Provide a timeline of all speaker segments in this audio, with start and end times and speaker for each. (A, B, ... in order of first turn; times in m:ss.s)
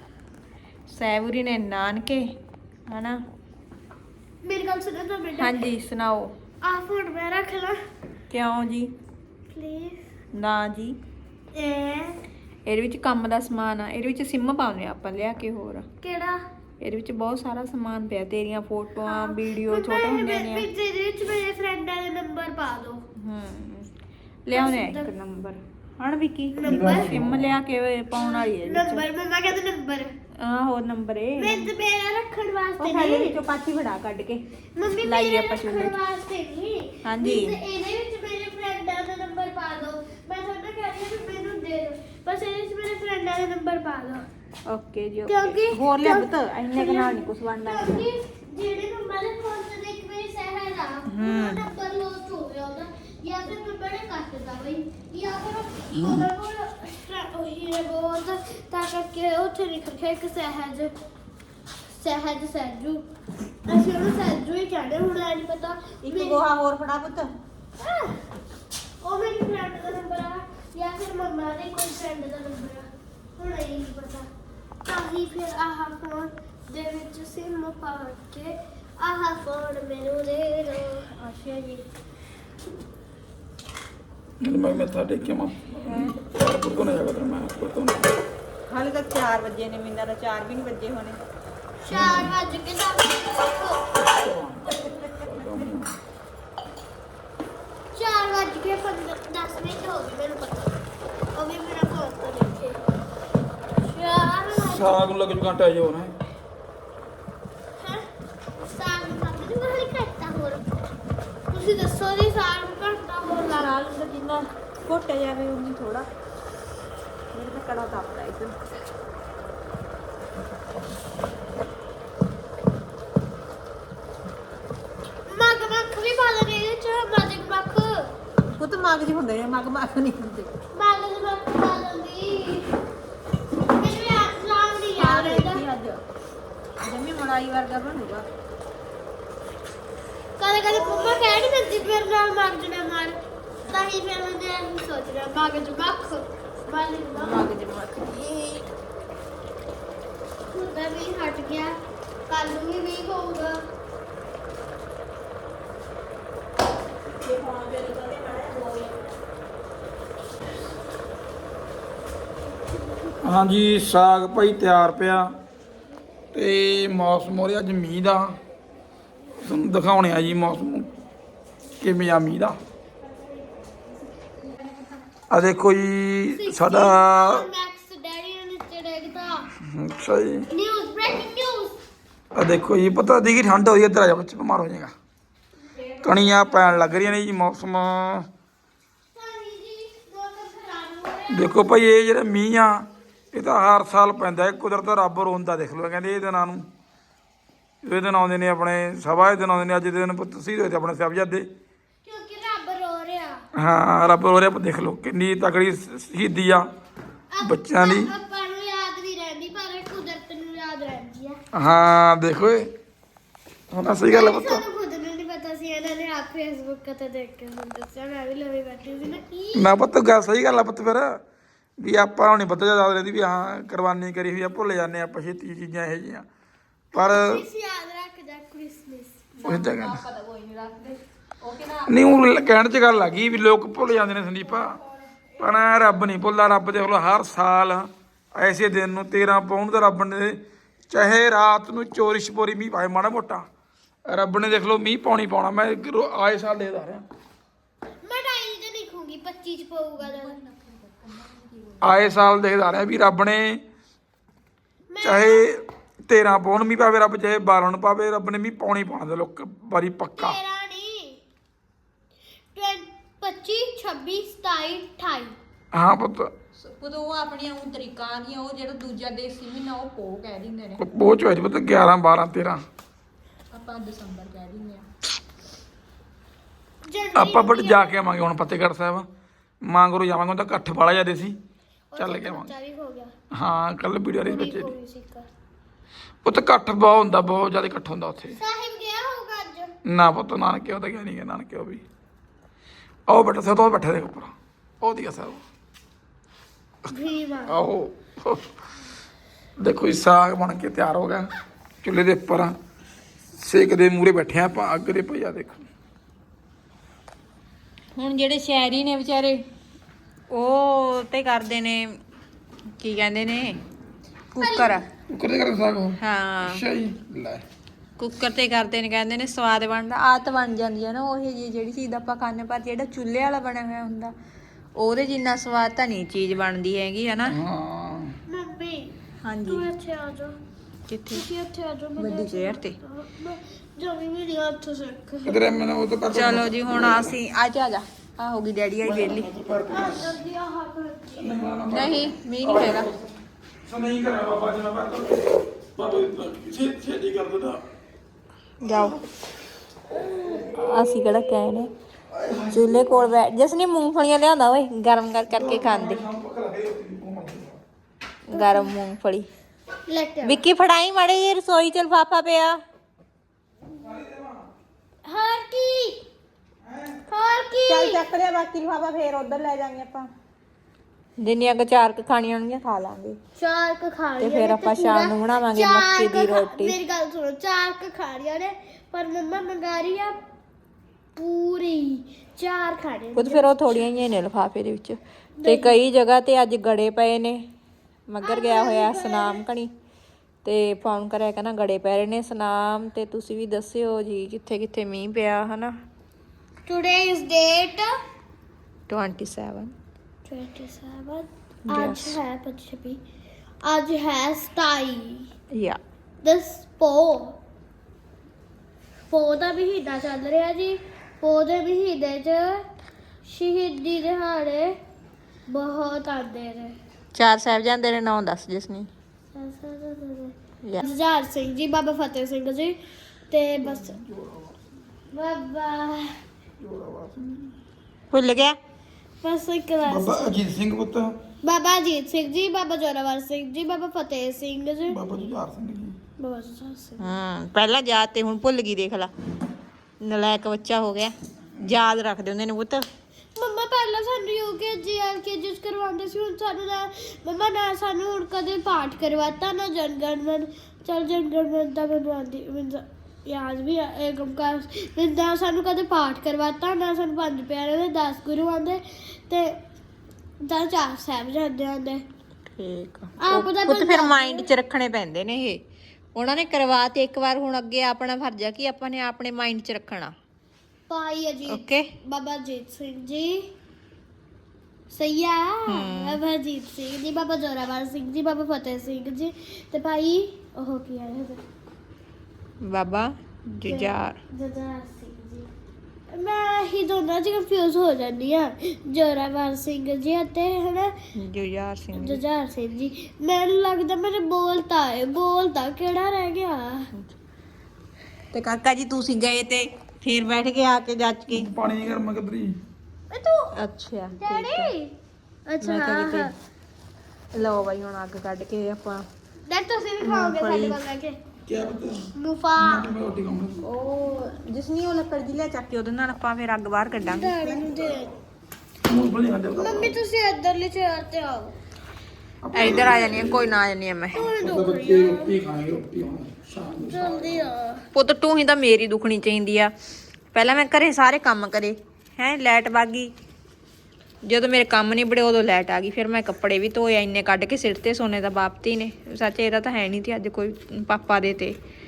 0:00.9-0:02.3 A
0:02.9-0:03.2 A
0:04.4-0:05.6 B
0:05.4-0:06.3 A
0:06.6-0:07.8 B
0:08.3-0:08.9 A
0:09.5-0:10.0 B
0:10.3-0:11.0 A
0:11.5-0:12.2 B
0:12.7-0:15.9 A
0:16.0-0:16.4 B
0:16.8-0:20.7 A
0:19.0-0:23.0 B
0:23.2-0:23.9 A
0:24.5-0:29.0 A
0:24.5-0:25.1 B
0:26.6-0:27.1 B
0:26.6-0:27.5 C
0:28.1-0:30.1 B
0:30.3-0:31.7 A
0:31.4-0:33.4 B
0:32.8-0:36.0 A
0:34.8-0:44.2 B
0:37.0-0:37.6 A
0:44.7-0:48.1 A
0:45.3-1:00.9 B
0:51.1-0:51.6 A
0:55.9-0:56.3 C
1:01.9-1:03.0 B
1:03.7-1:06.4 B
1:06.0-1:07.3 A
1:07.8-1:08.2 B
1:09.0-1:14.3 B
1:14.8-1:21.8 B
1:24.4-1:28.1 C
1:25.8-1:26.1 A
1:28.7-1:31.2 A
1:31.8-1:33.8 B
1:31.9-1:32.4 C
1:34.0-1:35.9 C
1:37.9-1:40.8 B
1:41.3-1:42.8 B
1:43.8-1:45.0 B
1:44.6-1:46.2 C
1:47.8-1:48.0 B
1:48.7-1:50.8 B
1:51.5-1:53.8 B
1:53.3-1:56.1 A
1:57.3-1:58.5 A
2:05.3-2:08.1 B
2:08.5-2:10.5 A
2:10.7-2:12.7 B
2:13.7-2:15.6 B
2:15.0-2:16.0 A
2:16.8-2:18.2 A
2:20.4-2:23.2 B
2:20.8-2:21.2 A
2:23.6-2:23.9 A
2:23.7-2:27.4 B
2:27.1-2:28.7 A
2:30.5-2:31.8 B
2:32.3-2:33.6 B
2:37.2-2:39.1 A
2:43.2-2:45.3 C
2:46.3-2:48.4 C
2:49.4-2:50.9 C
2:51.8-2:52.6 C
2:55.3-2:57.5 C
2:56.4-2:59.5 B
2:59.6-3:00.5 C
3:00.5-3:01.8 B
3:02.3-3:04.9 C
3:05.7-3:07.0 A
3:06.0-3:08.3 C
3:09.1-3:11.6 B
3:11.3-3:16.6 C
3:17.8-3:21.5 C
3:22.0-3:23.4 B
3:23.6-3:26.7 C
3:27.3-3:31.4 B
3:27.4-3:28.1 C
3:31.5-3:32.7 C
3:33.7-3:34.6 C
3:34.1-3:39.7 B
3:39.5-3:41.2 C
3:41.8-3:46.2 C
3:46.9-3:47.4 C
3:46.9-3:49.2 B
3:49.3-3:52.1 A
3:49.4-3:50.0 C
3:51.9-3:54.8 C
3:54.4-3:55.9 A
3:55.4-4:03.5 C
4:04.0-4:07.0 C
4:08.0-4:10.3 B
4:10.0-4:12.0 A
4:11.8-4:13.6 C
4:14.9-4:15.4 B
4:15.0-4:20.4 C
4:20.2-4:21.2 B
4:22.5-4:25.4 B
4:25.7-4:26.3 C
4:26.6-4:30.8 A
4:30.8-4:32.6 C
4:33.5-4:34.9 A
4:36.8-4:37.9 B
4:37.1-4:39.1 C
4:39.6-4:41.4 C
4:41.9-4:43.1 B
4:42.0-4:42.5 C
4:43.3-4:44.7 C
4:44.2-4:45.3 B
4:46.2-4:48.4 C
4:48.4-4:49.7 B
4:49.8-4:51.8 C
4:53.1-4:55.4 C
4:56.9-4:57.6 B
4:57.5-4:58.5 C
4:59.6-5:01.3 C
5:01.8-5:02.6 C
5:03.4-5:05.6 C
5:07.9-5:09.4 A
5:10.3-5:12.0 A
5:12.8-5:13.6 A
5:14.3-5:14.8 A
5:14.4-5:14.7 B
5:15.1-5:17.4 C
5:16.0-5:16.6 A
5:18.0-5:24.1 A
5:24.8-5:27.4 A
5:27.3-5:28.2 C
5:28.3-5:28.9 B
5:29.2-5:29.6 A
5:29.5-5:30.4 B
5:30.9-5:31.2 A
5:31.1-5:35.4 B
5:32.0-5:32.8 A
5:35.2-5:37.1 C
5:36.1-5:39.3 A
5:38.8-5:40.2 C
5:39.7-5:41.4 B
5:41.2-5:47.6 C
5:41.7-5:42.9 A
5:48.6-5:49.0 A
5:48.7-5:49.0 C
5:50.3-5:50.6 C
5:50.4-5:51.7 A
5:52.1-5:53.1 C
5:52.5-5:56.0 A
5:55.3-5:57.6 C
5:58.3-5:59.3 A
5:58.3-5:58.7 B
5:59.9-6:00.4 B
6:00.2-6:02.6 A
6:03.8-6:04.5 C
6:05.0-6:06.0 B
6:06.6-6:07.0 C
6:07.1-6:08.0 B
6:07.7-6:10.1 A
6:11.2-6:13.2 A
6:13.4-6:20.2 B
6:14.2-6:16.8 A
6:21.2-6:23.5 B
6:23.1-6:27.4 A
6:25.4-6:25.8 B
6:28.1-6:29.7 A
6:28.2-6:29.4 B
6:30.4-6:35.8 A
6:36.6-6:38.0 B
6:38.9-6:39.7 A
6:40.2-6:43.0 B
6:41.7-6:42.2 A
6:43.6-6:45.3 B
6:45.5-6:45.8 A
6:46.2-6:47.4 B
6:49.1-6:52.7 B
6:53.2-6:54.8 B
6:55.5-6:56.8 B
6:57.1-6:58.9 A
6:59.3-7:02.8 B
7:03.3-7:03.9 B
7:03.6-7:04.6 C
7:05.1-7:06.2 B
7:06.6-7:07.6 C
7:08.1-7:08.6 A
7:09.2-7:10.3 B
7:09.8-7:11.2 C
7:11.4-7:15.0 B
7:14.9-7:16.0 C
7:16.2-7:17.0 B
7:17.0-7:19.1 A
7:20.0-7:22.9 A
7:23.4-7:39.6 B
7:40.4-7:42.0 B
7:42.6-7:45.6 A
7:43.2-7:44.4 B
7:46.2-7:50.1 A
7:50.9-7:53.5 B
7:51.5-7:51.9 A
7:54.9-8:01.4 B
7:55.7-7:56.2 A
8:02.6-8:04.2 A
8:03.7-8:05.5 B
8:06.1-8:11.0 B
8:11.1-8:12.2 A
8:11.9-8:16.9 B
8:18.3-8:21.5 A
8:21.3-8:22.6 C
8:23.1-8:23.5 B
8:23.5-8:24.7 A
8:24.2-8:24.9 B
8:25.5-8:26.3 B
8:25.6-8:26.3 A
8:27.3-8:29.1 A
8:29.5-8:31.2 B
8:30.0-8:30.8 A
8:31.4-8:33.6 C
8:32.2-8:32.9 B
8:33.6-8:37.8 A
8:37.1-8:38.1 B
8:38.8-8:40.0 C
8:39.6-8:41.5 B
8:42.4-8:43.6 C
8:42.5-8:44.2 A
8:42.6-8:42.9 B
8:44.1-8:45.4 B
8:44.4-8:47.5 C
8:46.9-8:47.8 B
8:47.9-8:49.7 A
8:50.3-8:53.1 A
8:54.2-9:01.6 A